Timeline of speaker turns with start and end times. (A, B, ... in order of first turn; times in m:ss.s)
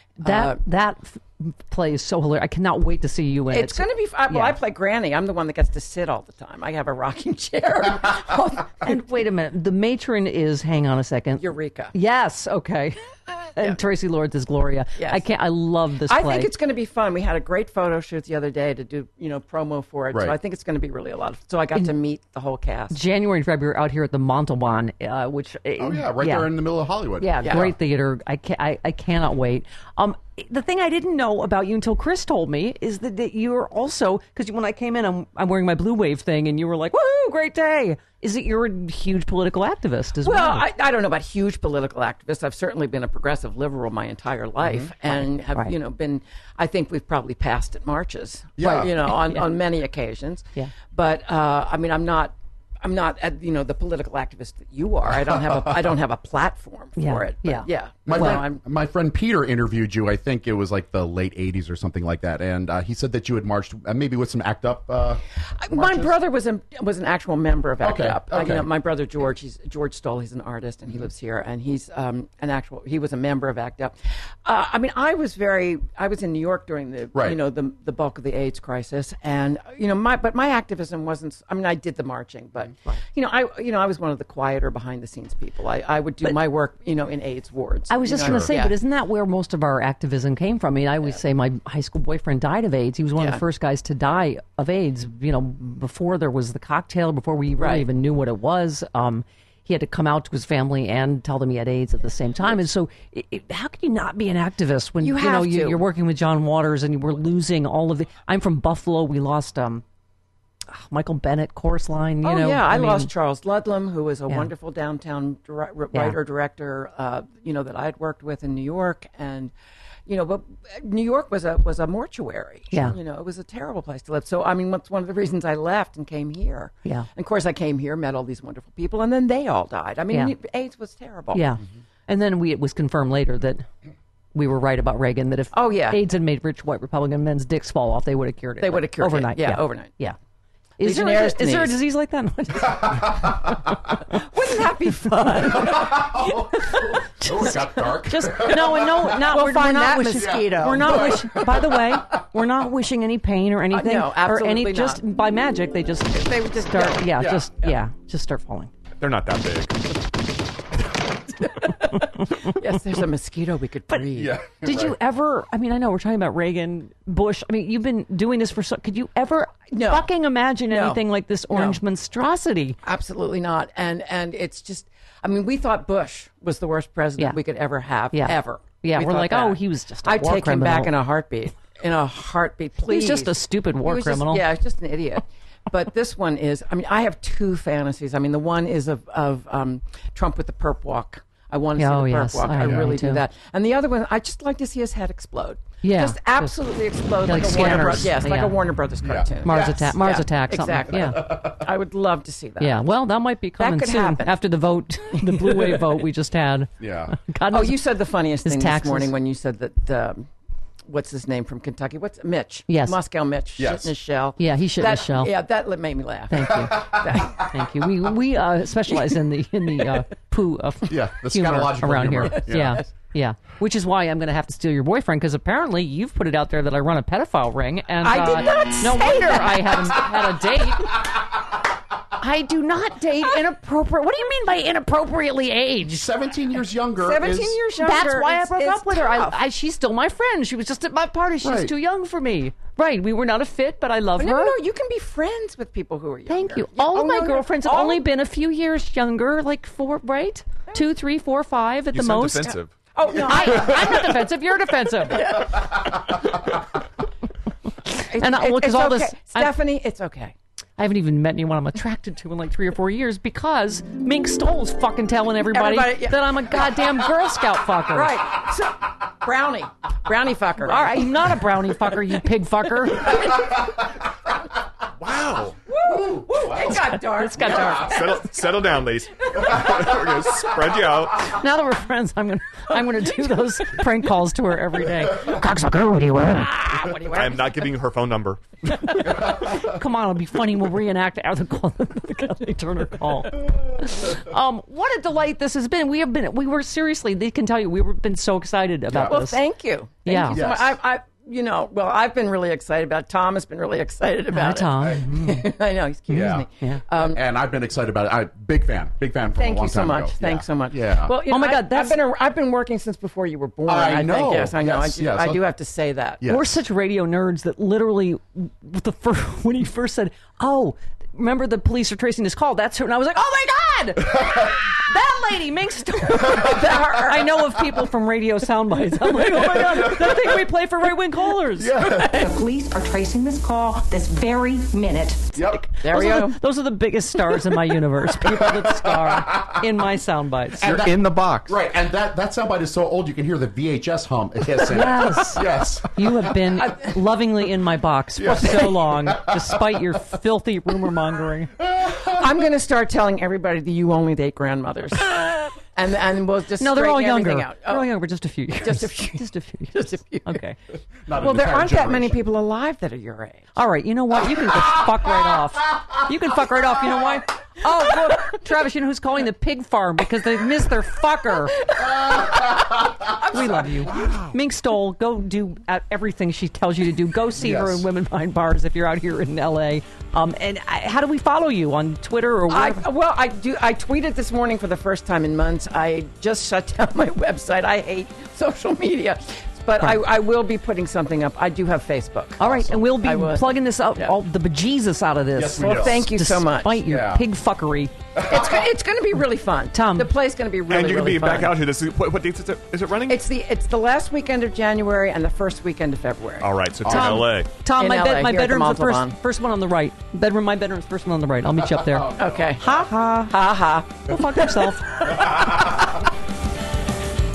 0:00.2-0:00.6 A
0:00.2-0:04.6 B
0:03.5-0:09.0 A
0:08.8-0:16.5 B
0:11.4-0:11.9 A
0:15.0-0:15.3 A
0:16.1-0:23.0 A
0:22.9-0:26.5 B
0:25.8-0:27.7 C
0:27.2-0:40.6 B
0:27.4-0:27.7 A
0:40.2-0:58.6 A
0:44.6-0:44.9 C
0:45.1-0:45.7 B
0:48.6-0:48.9 C
0:57.0-0:58.4 B
0:58.0-1:06.1 C
1:05.6-1:28.7 A
1:07.8-1:08.7 C
1:27.9-1:49.8 B
1:33.2-1:33.4 A
1:37.6-1:37.8 A
1:45.0-1:45.8 A
1:50.7-1:53.1 B
1:52.2-1:59.5 A
2:00.1-2:11.5 A
2:11.3-2:13.7 B
2:14.3-2:20.2 B
2:15.5-2:16.0 A
2:18.6-2:19.9 A
2:20.8-2:23.8 B
2:20.8-2:21.8 A
2:22.7-2:23.6 C
2:24.1-2:26.1 A
2:25.4-2:29.3 C
2:26.2-2:38.7 B
2:28.4-2:31.5 A
2:30.1-2:32.2 C
2:33.7-2:35.0 A
2:36.1-2:37.0 A
2:37.1-2:37.5 C
2:39.0-2:40.0 D
2:41.4-2:44.4 A
2:41.7-2:42.6 B
2:44.0-2:45.0 C
2:44.6-2:52.8 B
2:49.7-2:50.1 A
2:50.7-2:51.8 A
2:52.8-3:22.8 A
2:58.1-3:00.9 B
3:02.8-3:04.4 B
3:11.8-3:13.2 B
3:12.6-3:13.0 C
3:15.8-3:16.6 B
3:17.2-3:18.6 B
3:19.0-3:19.9 C
3:19.4-3:21.2 B
3:20.9-3:21.6 C
3:22.6-3:27.8 B
3:23.6-3:24.4 A
3:25.1-3:26.0 A
3:26.8-3:27.1 C
3:27.5-3:30.3 A
3:28.4-3:29.1 B
3:30.9-3:37.5 A
3:32.7-3:33.0 B
3:33.6-3:33.9 C
3:34.4-3:35.3 B
3:36.3-3:51.0 B
3:36.5-3:37.3 C
3:38.9-3:39.2 A
3:39.7-3:40.0 A
3:40.9-3:42.8 C
3:42.3-3:42.8 A
3:48.0-3:50.3 A
3:52.2-3:56.1 B
3:55.9-3:57.6 C
3:57.0-3:59.4 A
3:57.8-4:04.5 B
4:01.4-4:01.7 C
4:04.2-4:08.0 A
4:06.3-4:12.6 B
4:11.9-4:12.7 D
4:12.4-4:14.1 A
4:13.2-4:15.4 B
4:13.4-4:14.0 D
4:15.0-4:16.5 A
4:17.8-4:19.5 B
4:18.1-4:20.3 A
4:20.8-4:28.2 B
4:25.4-4:27.2 A
4:27.9-4:31.4 A
4:30.6-4:33.3 B
4:32.9-4:33.6 A
4:35.0-4:35.6 D
4:35.7-4:38.5 A
4:35.8-4:37.7 C
4:36.8-4:38.1 B
4:37.7-4:41.4 D
4:39.3-4:40.0 A
4:39.4-4:39.8 C
4:41.1-4:46.7 B
4:46.4-4:47.7 A
4:46.9-4:48.4 D
4:48.7-4:59.4 B
4:58.9-4:59.2 C
4:59.0-5:07.2 A
5:00.0-5:00.4 B
5:00.3-5:00.8 C
5:04.3-5:05.5 B
5:04.8-5:05.4 C
5:06.1-5:11.2 C
5:09.4-5:16.2 A
5:11.2-5:12.0 B
5:13.7-5:15.4 C
5:16.2-5:16.6 C
5:16.2-5:31.8 B
5:26.2-5:27.3 A
5:29.6-5:30.2 C
5:31.6-5:32.3 C
5:32.0-5:35.3 E
5:35.3-5:35.6 C
5:35.5-5:40.8 B
5:35.8-5:36.4 A
5:38.2-5:39.6 C
5:40.6-5:46.3 C
5:40.6-5:41.5 D
5:44.7-5:51.5 B
5:46.6-5:46.9 A
5:48.2-5:49.8 C
5:51.6-5:52.2 C
5:51.7-5:57.9 A
5:56.6-6:00.6 B
5:58.6-6:00.4 A
6:01.0-6:02.2 C
6:01.2-6:03.5 A
6:03.6-6:11.6 B
6:11.5-6:14.3 A
6:11.8-6:13.1 C
6:13.3-6:22.8 B
6:13.9-6:14.3 C
6:17.4-6:17.8 C
6:22.5-6:34.2 A
6:32.4-6:37.9 B
6:35.3-6:36.1 C
6:35.6-6:36.8 A
6:36.8-6:37.2 C
6:38.1-6:38.7 C
6:38.3-6:41.6 A
6:39.7-6:40.1 B
6:40.7-6:43.2 D
6:43.1-6:47.0 A
6:46.4-6:47.5 D
6:46.8-6:47.2 C
6:46.9-6:53.4 B
6:47.8-6:49.2 A
6:51.6-6:52.8 C
6:52.2-6:55.4 A
6:54.0-6:55.6 B
6:55.2-6:55.7 C